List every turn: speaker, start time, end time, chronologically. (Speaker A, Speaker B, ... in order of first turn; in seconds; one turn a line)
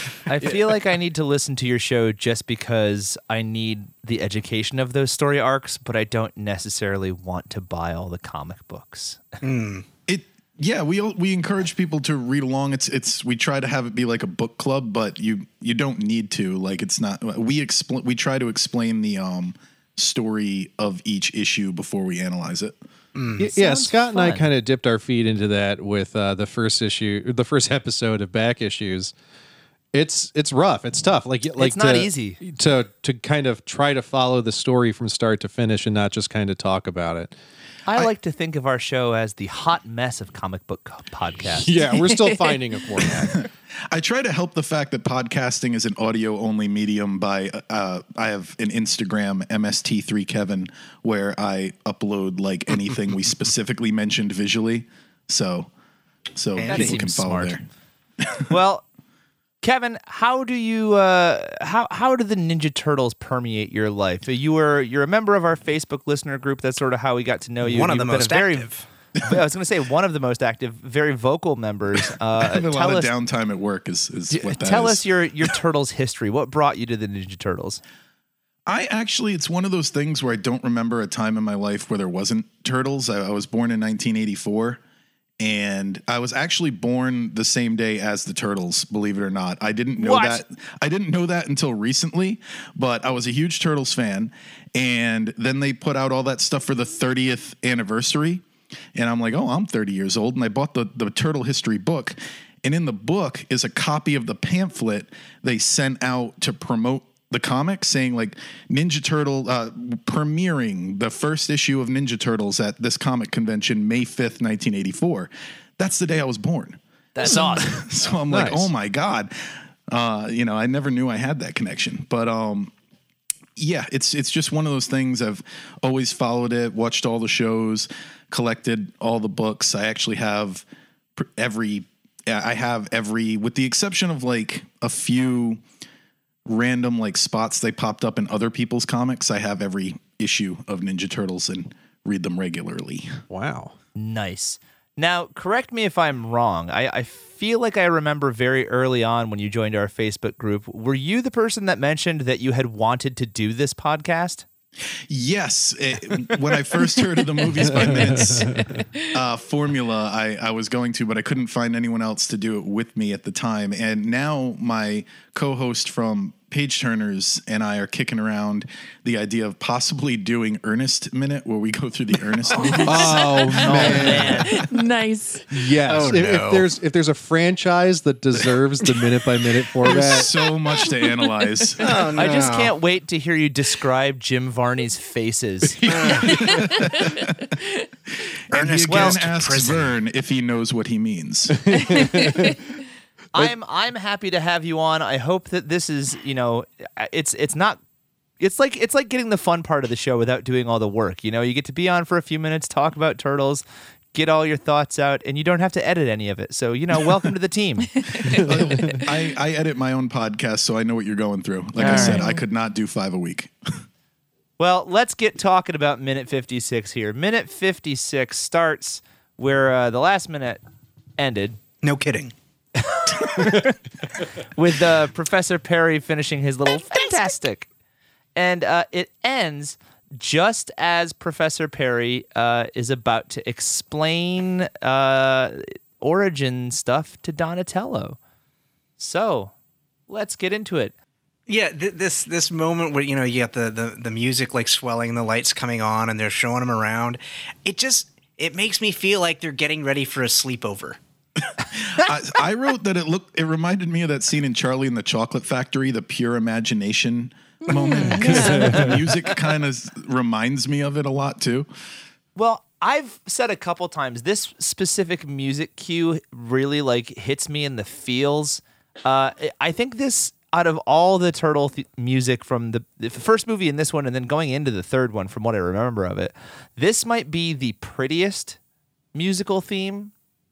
Speaker A: 0.3-9.2
Speaker B: 9.4-9.8
Speaker C: 10.1-22.8
Speaker B: 23.1-23.5
Speaker D: 23.4-29.1
Speaker A: 23.5-24.5
Speaker D: 29.9-37.3
Speaker A: 31.6-32.4
Speaker A: 37.9-41.9
Speaker D: 41.5-43.4
Speaker E: 42.0-43.2
Speaker C: 43.4-55.7
Speaker C: 56.3-57.6
Speaker B: 56.6-57.0
Speaker A: 56.6-57.6
Speaker C: 58.2-58.5
Speaker A: 58.5-58.8
Speaker A: 59.6-73.1
Speaker B: 67.6-68.8
Speaker C: 72.4-75.5
Speaker A: 74.3-77.8
Speaker C: 78.7-84.8
Speaker C: 85.4-98.4
Speaker A: 90.0-90.4
Speaker C: 98.9-122.7
Speaker A: 117.1-117.8
Speaker D: 118.3-118.7
Speaker C: 123.5-130.6
Speaker C: 131.2-135.6
Speaker C: 136.4-143.1
Speaker D: 143.3-143.7
Speaker A: 143.9-154.4
Speaker C: 155.1-173.4
Speaker D: 157.6-158.8
Speaker E: 158.6-159.1
Speaker B: 172.5-173.1
Speaker E: 172.7-175.5
Speaker D: 172.8-174.7
Speaker A: 173.5-174.6
Speaker D: 175.5-180.3
Speaker B: 175.8-176.7
Speaker C: 179.8-182.0
Speaker B: 181.8-182.7
Speaker A: 182.2-186.4
Speaker B: 185.9-186.4
Speaker C: 186.0-187.5
Speaker E: 186.5-187.2
Speaker C: 188.5-192.0
Speaker B: 188.5-189.9
Speaker A: 188.9-189.2
Speaker D: 191.6-192.6
Speaker E: 191.8-192.6
Speaker A: 193.3-197.8
Speaker A: 198.4-207.9
Speaker E: 208.1-208.4
Speaker D: 208.2-209.0
Speaker C: 208.3-213.5
Speaker A: 211.8-212.2
Speaker D: 211.9-212.2
Speaker A: 214.6-220.6
Speaker A: 221.2-221.6
Speaker B: 221.8-222.3
Speaker A: 223.1-223.7
Speaker A: 224.4-227.7
Speaker B: 226.8-227.3
Speaker A: 228.3-238.2
Speaker A: 239.0-239.5
Speaker A: 240.1-240.9
Speaker B: 241.5-251.0
Speaker C: 251.7-261.7
Speaker E: 257.6-258.9
Speaker D: 258.2-259.0
Speaker A: 262.4-278.6
Speaker A: 279.1-280.1